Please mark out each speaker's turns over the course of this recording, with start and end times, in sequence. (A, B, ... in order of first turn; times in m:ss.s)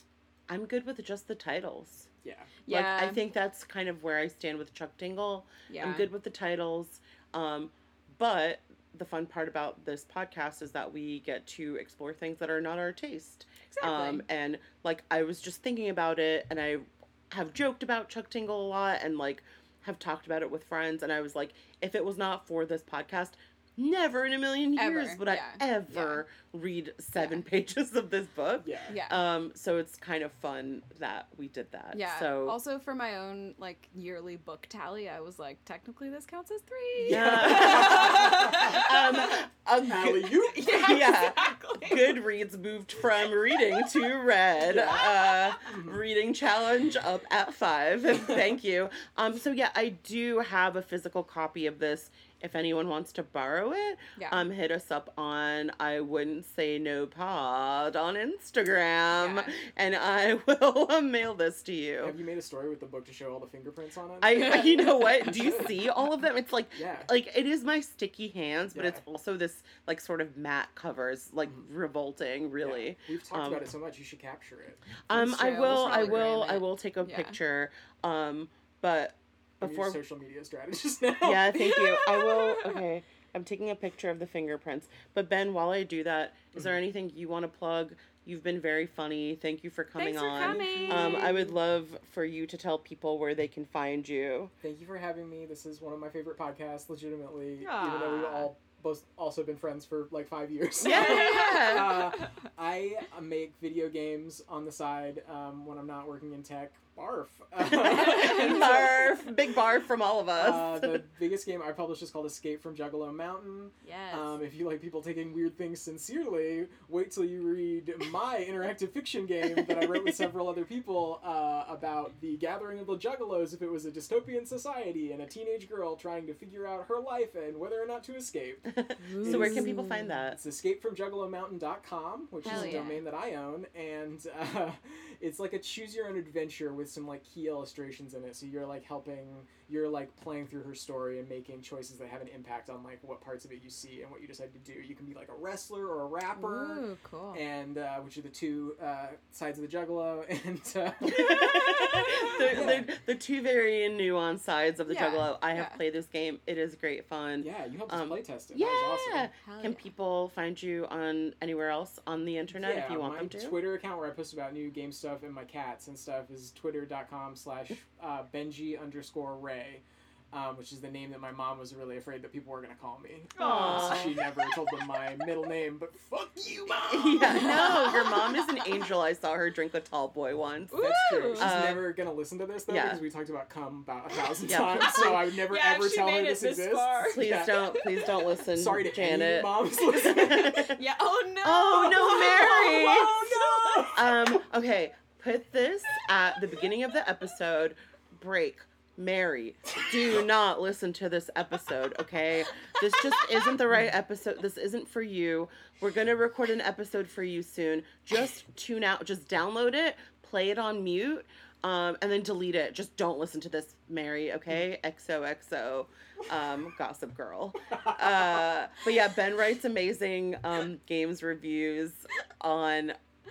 0:00.5-0:02.1 A
0:02.2-0:02.5 B
0:02.6-0:03.2 C
0:02.7-0:32.6 A
0:05.7-0:06.1 C
0:13.7-0:14.2 C
0:24.8-0:26.2 C
0:27.2-0:27.4 C
0:28.6-0:28.9 B
0:28.9-0:29.2 C
0:31.9-0:39.3 C
0:37.0-1:02.2 A
0:37.1-0:38.8 B
0:39.9-0:40.7 B
0:40.5-0:42.2 C
0:43.5-0:44.0 C
0:44.7-0:45.5 C
0:44.7-0:45.0 B
0:45.6-0:46.0 B
0:54.2-0:54.4 C
0:59.1-0:59.5 C
1:02.0-1:05.8 B
1:04.2-1:13.6 A
1:04.3-1:05.0 C
1:06.7-1:07.1 B
1:08.7-1:09.0 B
1:12.6-1:16.3 B
1:15.1-1:20.0 A
1:15.3-1:17.4 C
1:19.6-1:21.6 B
1:21.2-1:34.5 A
1:21.6-1:22.8 C
1:30.0-1:31.5 C
1:30.3-1:31.5 B
1:34.6-1:49.2 B
1:37.6-1:38.5 C
1:40.8-1:42.1 A
1:40.8-1:42.3 C
1:47.6-1:51.0 A
1:50.3-2:31.4 B
1:53.8-1:54.4 C
1:59.6-2:00.2 A
2:08.7-2:10.4 A
2:09.0-2:10.1 C
2:12.4-2:13.0 C
2:12.5-2:12.8 A
2:26.4-2:27.4 C
2:31.0-2:32.5 C
2:31.1-2:43.6 A
2:32.4-2:32.9 B
2:34.9-2:35.8 C
2:37.4-2:39.3 B
2:39.4-2:39.9 C
2:42.5-2:57.9 B
2:53.4-2:54.8 C
2:53.4-2:54.2 A
2:56.9-3:00.8 A
2:57.2-2:58.8 C
3:00.7-3:01.5 C
3:00.7-3:10.6 B
3:01.4-3:01.9 A
3:02.7-3:03.0 A
3:04.5-3:05.2 A
3:04.8-3:08.0 C
3:07.1-3:10.8 A
3:10.2-3:14.1 C
3:11.4-3:13.2 A
3:12.9-3:14.4 B
3:13.9-3:43.0 A
3:37.7-3:38.4 B